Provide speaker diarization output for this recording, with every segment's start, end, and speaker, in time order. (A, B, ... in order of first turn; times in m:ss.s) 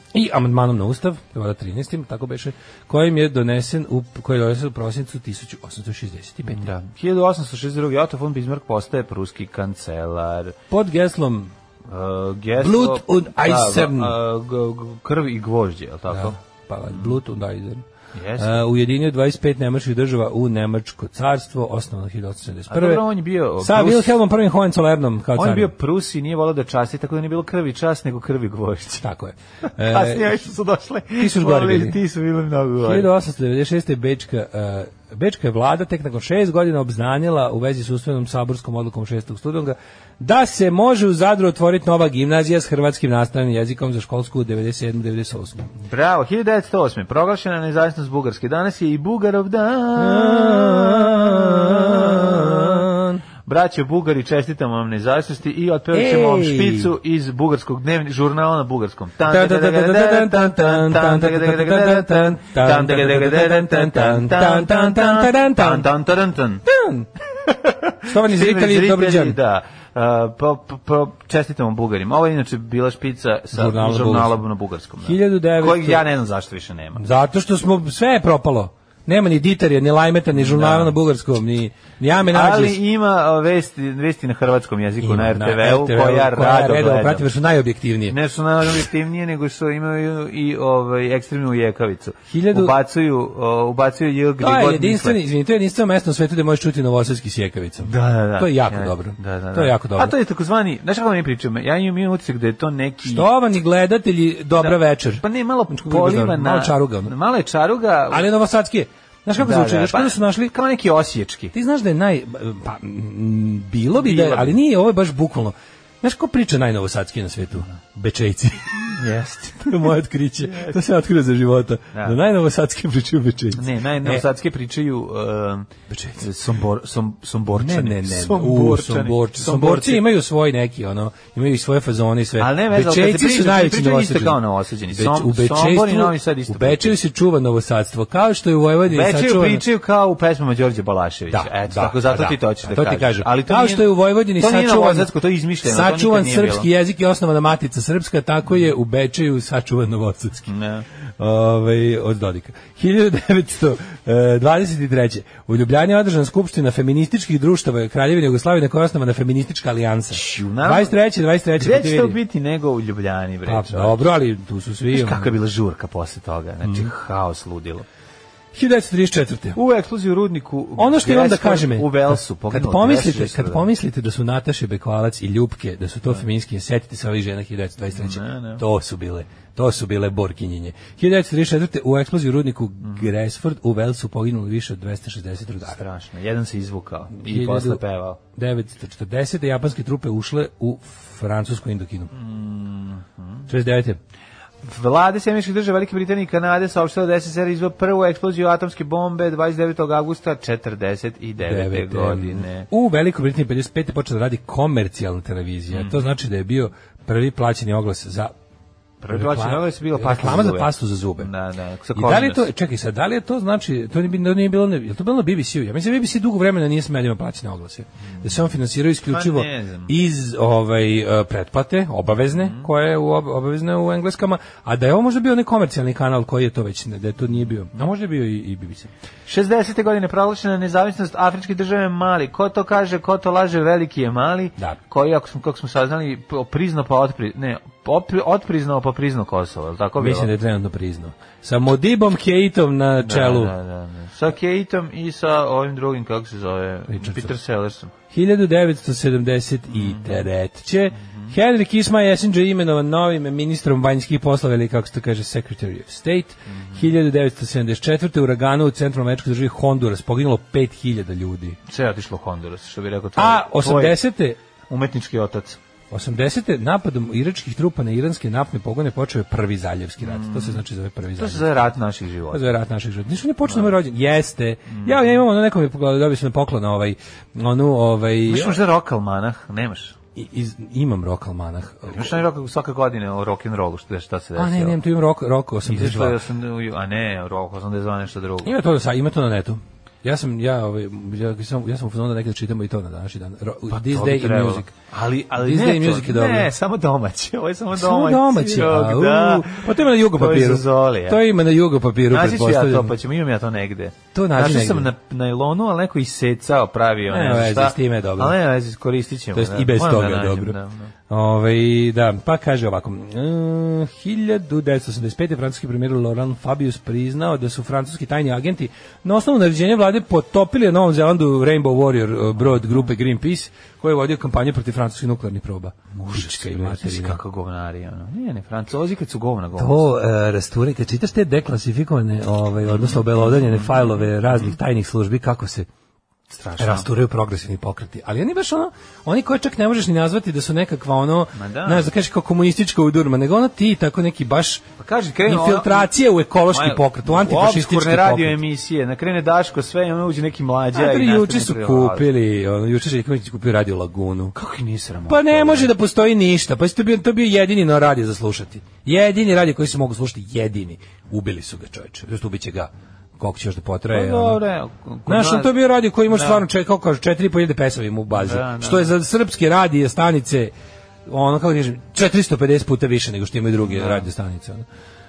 0:00.1-0:06.7 A
0:06.5-0:10.6 B
0:10.7-0:11.5 A
0:11.9-0:16.4 B
0:12.6-0:14.2 A
0:16.1-0:17.8 A
0:16.9-0:17.2 B
0:18.1-0:18.6 B
0:18.4-0:23.1 A
0:22.7-0:24.2 B
0:23.6-0:25.7 A
0:25.4-0:29.0 B
0:29.0-0:30.5 A
0:29.8-0:33.1 B
0:31.2-0:32.0 A
0:32.8-0:45.7 A
0:45.8-0:52.8 B
0:50.0-0:53.2 A
0:53.4-1:06.6 B
0:55.9-0:56.9 A
0:59.2-1:05.9 A
1:06.6-1:07.1 A
1:07.5-1:17.0 B
1:08.0-1:09.4 A
1:13.5-1:14.4 A
1:15.0-1:16.0 A
1:17.0-1:22.8 A
1:20.3-1:20.9 B
1:22.3-1:27.3 B
1:25.0-1:28.2 A
1:28.1-1:35.2 B
1:32.3-1:32.8 A
1:34.4-1:40.2 A
1:37.8-1:43.3 B
1:43.0-1:47.1 A
1:44.6-1:48.3 B
1:48.1-1:50.5 A
1:49.4-1:51.5 B
1:51.5-1:59.0 A
1:53.9-1:54.6 B
1:58.9-1:59.9 B
1:59.6-2:04.2 A
2:00.4-2:00.8 B
2:01.9-2:02.2 B
2:03.6-2:10.1 B
2:05.9-2:06.3 A
2:07.6-2:19.6 A
2:12.4-2:17.0 B
2:18.9-2:26.7 B
2:21.3-2:30.5 A
2:30.5-2:30.8 B
2:31.2-2:42.2 A
2:40.1-2:40.9 B
2:41.6-2:44.0 B
2:43.4-2:45.3 A
2:44.9-2:47.8 B
2:46.6-2:46.9 A
2:48.5-2:49.6 A
2:49.6-2:53.7 B
2:50.8-3:05.8 A
2:57.9-2:58.6 B
3:02.8-3:03.1 B
3:05.6-3:08.2 B
3:07.1-3:07.8 A
3:08.4-3:12.1 A
3:12.1-3:13.5 B
3:13.5-3:14.0 A
3:14.6-3:22.7 B
3:21.4-3:28.3 A
3:25.7-3:26.0 B
3:29.0-3:32.4 B
3:29.1-3:31.3 A
3:31.9-3:48.9 A
3:39.1-3:39.9 B
3:42.3-3:42.7 B
3:49.3-4:00.3 B
4:00.0-4:03.5 A
4:03.0-4:07.9 B
4:06.9-4:07.3 A
4:08.1-4:21.6 A
4:09.7-4:10.2 B
4:11.0-4:11.3 B
4:16.5-4:16.8 B
4:21.7-4:24.0 B
4:23.2-4:24.4 A
4:24.7-4:25.6 B
4:25.9-4:31.6 A
4:30.0-4:30.6 B
4:31.2-4:32.5 B
4:32.3-4:38.6 A
4:34.7-4:35.2 B
4:38.3-4:40.0 B
4:40.2-4:42.2 A
4:41.9-4:44.8 B
4:44.4-4:46.2 A
4:45.6-4:48.5 B
4:48.4-4:54.7 A
4:53.7-5:01.2 B
4:55.4-4:56.5 A
4:57.7-5:02.9 A
5:02.1-5:10.9 B
5:04.1-5:04.9 A
5:07.1-5:08.4 A
5:09.3-5:10.6 A
5:11.1-5:27.2 A
5:25.9-5:29.9 B
5:29.6-5:35.7 A
5:32.7-5:34.5 B
5:36.3-5:36.9 B
5:36.6-5:44.6 A
5:41.4-5:41.9 B
5:44.8-5:45.9 B
5:45.2-5:48.4 A
5:46.5-5:52.1 B
5:50.7-5:54.4 A
5:54.4-5:55.7 B
5:55.1-6:04.4 A
6:03.9-6:05.5 B
6:05.1-6:10.5 A
6:06.1-6:06.4 B
6:08.2-6:08.9 B
6:11.1-6:14.6 A
6:13.6-6:14.1 B